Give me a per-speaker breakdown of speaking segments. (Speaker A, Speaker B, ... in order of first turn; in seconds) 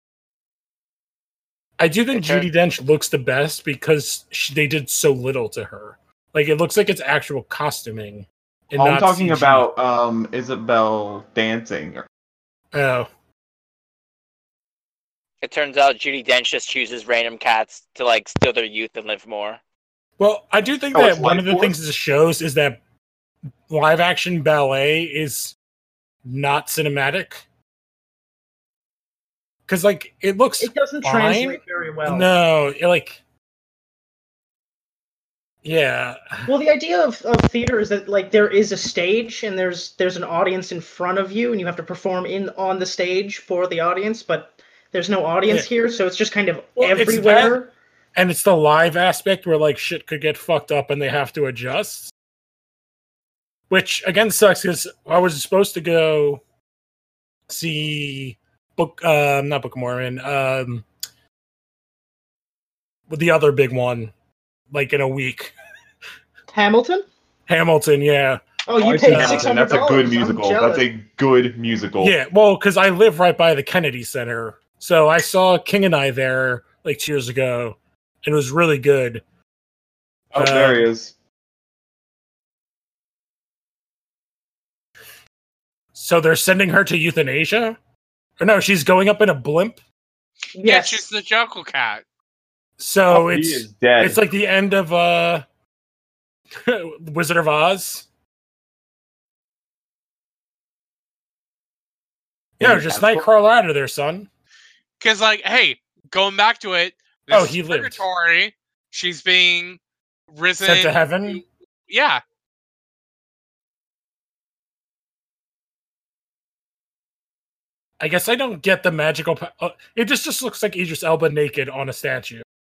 Speaker A: 1.8-9.7, 12.7-13.1, 20.2-22.8, 23.7-25.5, 26.2-27.4, 29.7-33.2, 35.6-36.5, 46.8-47.6, 48.1-52.1, 53.7-56.4, 57.5-60.9, 63.1-64.1, 64.7-65.5, 67.5-68.4, 69.0-69.5, 72.0-79.2, 80.3-80.9, 85.9-87.8, 88.4-89.8, 92.8-95.5, 96.6-98.0, 102.6-104.3, 107.3-108.0, 110.6-111.4, 118.0-122.4
Speaker B: 2.1-2.5, 15.4-19.6
Speaker C: 8.8-12.1, 20.9-21.7, 68.8-72.2, 80.3-81.1, 93.1-94.2, 102.6-103.2
Speaker D: 30.6-32.3, 36.5-47.7, 66.5-67.0, 68.7-70.8, 90.5-91.0
Speaker E: 90.6-92.0, 105.0-109.8, 110.3-112.2